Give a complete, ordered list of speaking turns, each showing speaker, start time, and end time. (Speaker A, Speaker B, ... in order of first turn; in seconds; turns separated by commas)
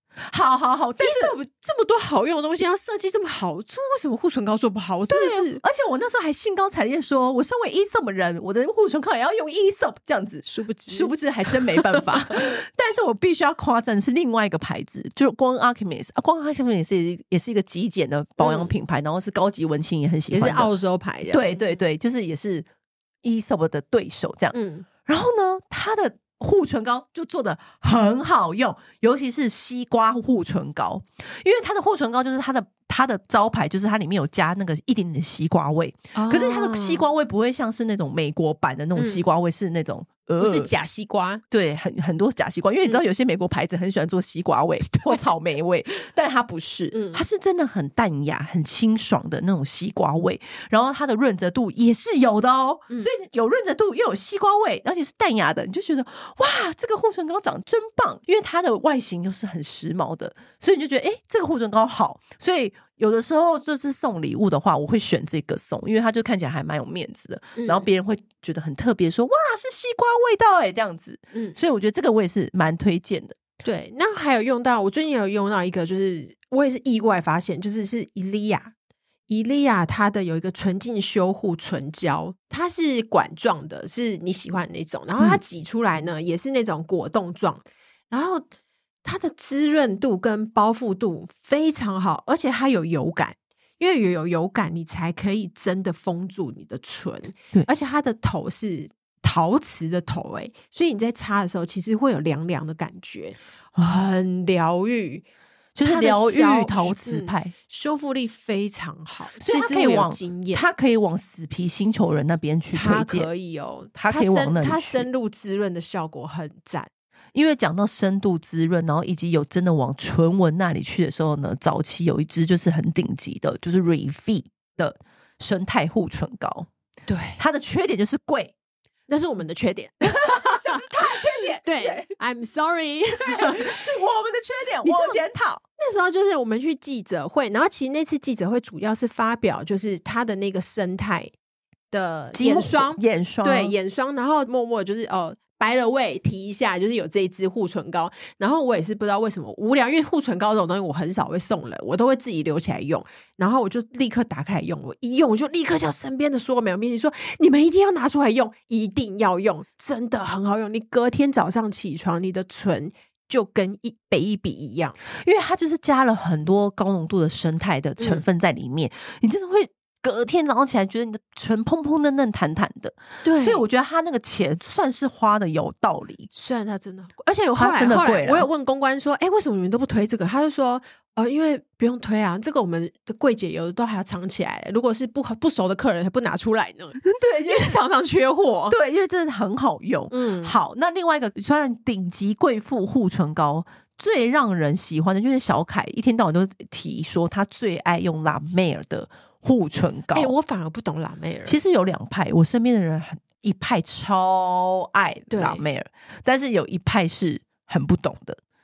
Speaker A: 0.3-1.3, Speaker B: 1.0-5.6, Speaker A: 5.1-20.7, Speaker B: 10.4-12.2, Speaker B: 18.4-18.7, Speaker B: 20.3-21.6, Speaker A: 21.3-22.7, Speaker A: 23.2-40.7, Speaker B: 24.5-24.9, Speaker B: 36.1-37.0, Speaker B: 38.9-39.2, Speaker B: 40.4-41.4, Speaker A: 41.5-73.4, Speaker B: 46.9-47.2, Speaker B: 67.5-67.9, Speaker B: 73.6-78.7, Speaker B: 79.3-88.4, Speaker B: 89.0-105.2, Speaker A: 105.7-107.5, Speaker B: 105.8-110.7, Speaker A: 109.4-113.3, Speaker B: 112.7-116.9, Speaker A: 113.9-115.1, Speaker A: 117.3-126.7, Speaker B: 127.1-127.4, Speaker A: 127.4-128.5, Speaker B: 129.1-133.8, Speaker A: 130.2-132.1, Speaker A: 133.2-135.6, Speaker B: 134.8-135.2, Speaker B: 135.8-141.3, Speaker B: 141.9-165.0, Speaker A: 142.3-143.7, Speaker A: 165.1-176.3, Speaker B: 173.2-173.6, Speaker B: 176.3-188.8, Speaker A: 177.6-178.5, Speaker A: 187.0-187.8, Speaker A: 188.7-200.3, Speaker B: 190.1-190.6, Speaker B: 200.1-201.6, Speaker A: 201.4-208.4, Speaker B: 205.3-205.6